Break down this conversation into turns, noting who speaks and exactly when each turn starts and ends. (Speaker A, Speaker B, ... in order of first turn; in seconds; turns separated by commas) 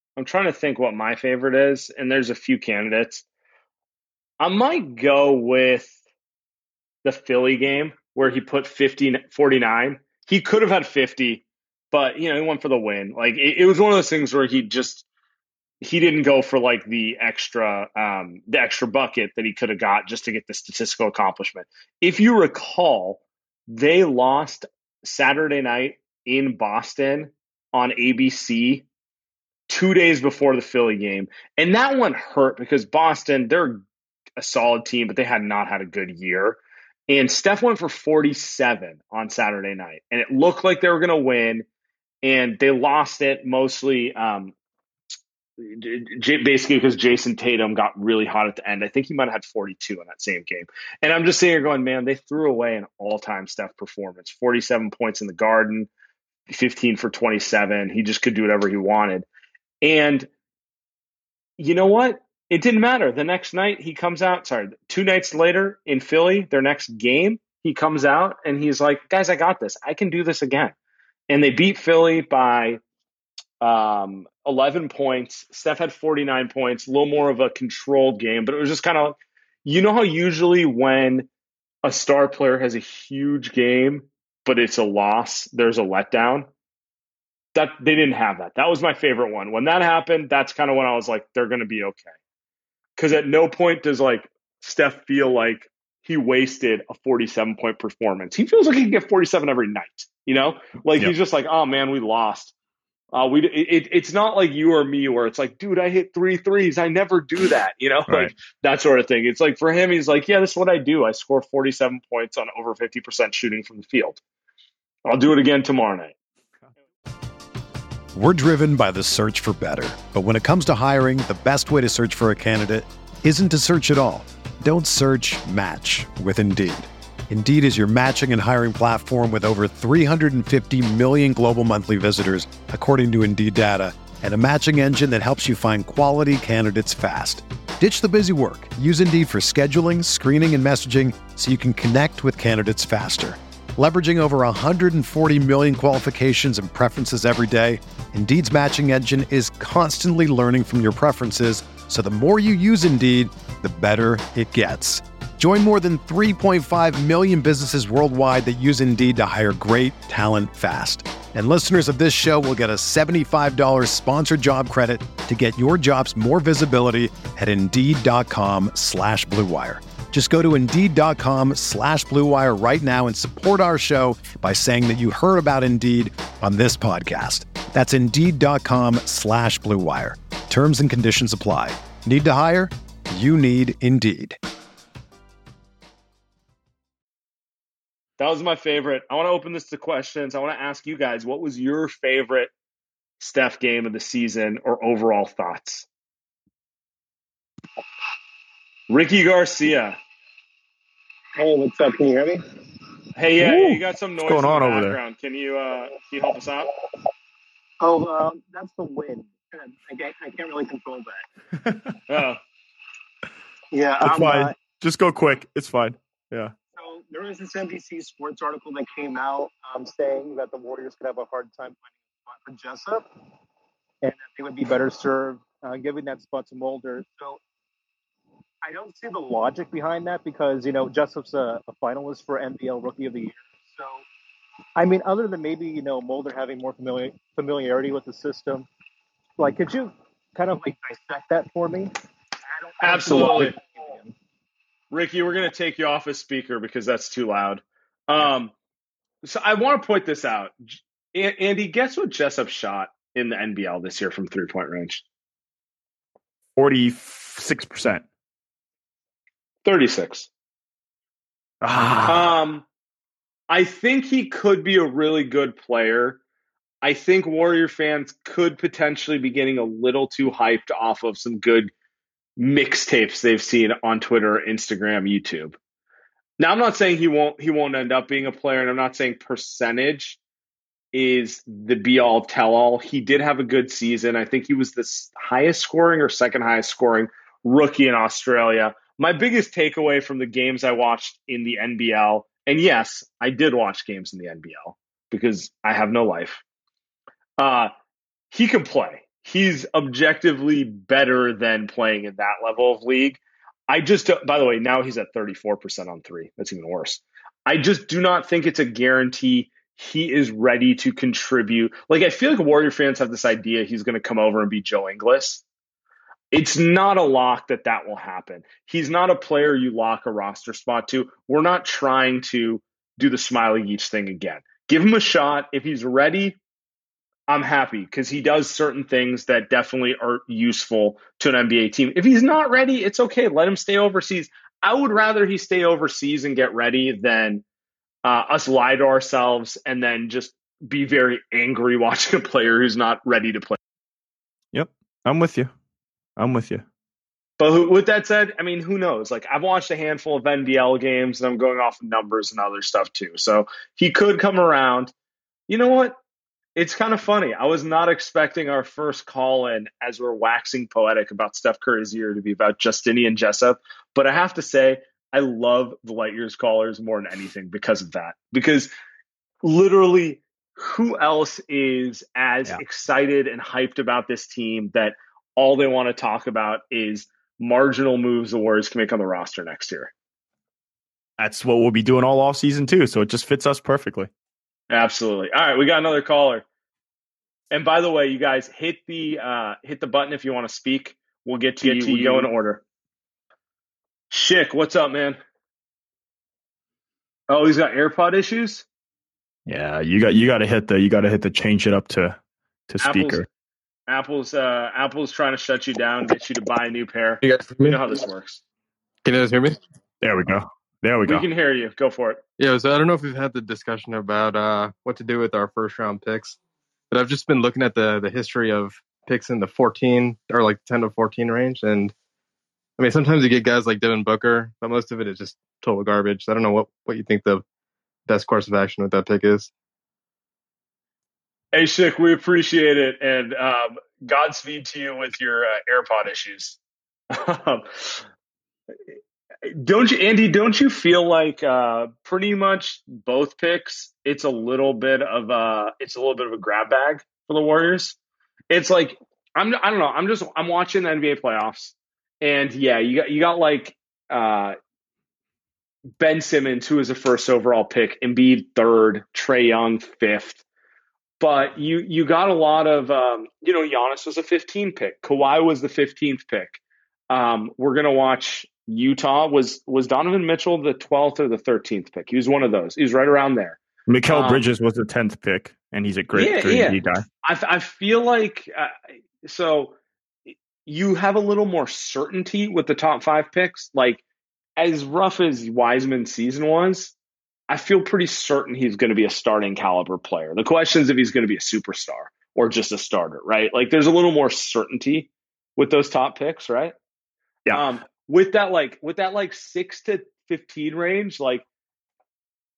Speaker A: 0.2-3.2, Speaker A: 4.4-6.0, Speaker A: 7.0-15.0, Speaker A: 15.8-28.9, Speaker A: 29.7-33.8, Speaker A: 34.4-41.6, Speaker A: 42.2-44.5, Speaker A: 45.6-55.9, Speaker A: 56.5-59.2, Speaker A: 59.8-60.3, Speaker A: 61.6-70.7, Speaker A: 71.3-72.8, Speaker A: 73.6-81.3, Speaker A: 81.8-86.5, Speaker A: 87.5-92.1, Speaker A: 93.0-102.5, Speaker A: 103.1-114.2, Speaker A: 115.0-116.1, Speaker B: 118.1-184.4, Speaker A: 188.2-192.5, Speaker A: 193.2-195.9, Speaker A: 198.9-200.0, Speaker C: 201.3-202.4, Speaker A: 203.2-206.7, Speaker D: 203.4-204.9, Speaker C: 207.8-211.2, Speaker D: 211.6-211.9, Speaker A: 212.1-212.4, Speaker C: 213.7-214.6, Speaker D: 214.0-216.5, Speaker C: 216.8-223.1, Speaker C: 224.0-227.4, Speaker C: 228.6-234.1, Speaker C: 234.8-238.7, Speaker C: 239.4-241.9, Speaker C: 242.5-244.1, Speaker A: 242.8-243.6, Speaker A: 244.9-248.5, Speaker A: 249.2-255.0, Speaker D: 256.6-258.0, Speaker A: 259.6-260.3, Speaker D: 261.6-262.3, Speaker A: 262.1-262.6, Speaker A: 263.5-266.2, Speaker A: 266.8-271.7, Speaker A: 272.4-275.6, Speaker A: 276.4-280.2, Speaker A: 280.9-296.4, Speaker A: 297.4-297.7, Speaker A: 298.3-315.4, Speaker A: 316.3-326.4, Speaker A: 327.3-337.4, Speaker A: 338.0-343.6, Speaker D: 344.5-345.5, Speaker D: 346.2-346.6, Speaker A: 347.4-354.9, Speaker A: 355.5-356.0, Speaker A: 356.6-368.7, Speaker A: 369.4-379.9, Speaker D: 381.2-384.1, Speaker A: 384.7-386.4, Speaker A: 387.5-392.6, Speaker D: 391.6-392.3, Speaker A: 394.1-395.2, Speaker A: 397.3-398.6, Speaker D: 399.5-402.2, Speaker D: 402.7-403.2, Speaker A: 402.8-403.2, Speaker A: 403.9-408.4, Speaker E: 407.2-407.8, Speaker E: 409.0-409.6, Speaker D: 410.0-411.2, Speaker A: 411.1-412.2, Speaker E: 412.4-416.4, Speaker E: 416.9-421.9, Speaker E: 422.8-427.4, Speaker E: 428.1-429.5, Speaker A: 431.5-436.6, Speaker A: 437.1-438.0, Speaker A: 438.9-448.0, Speaker A: 448.5-454.6, Speaker A: 456.0-460.4, Speaker A: 461.2-474.4, Speaker D: 473.9-477.0, Speaker A: 476.1-479.7, Speaker A: 480.3-484.0, Speaker A: 484.6-486.9, Speaker A: 487.5-496.7, Speaker A: 497.5-501.4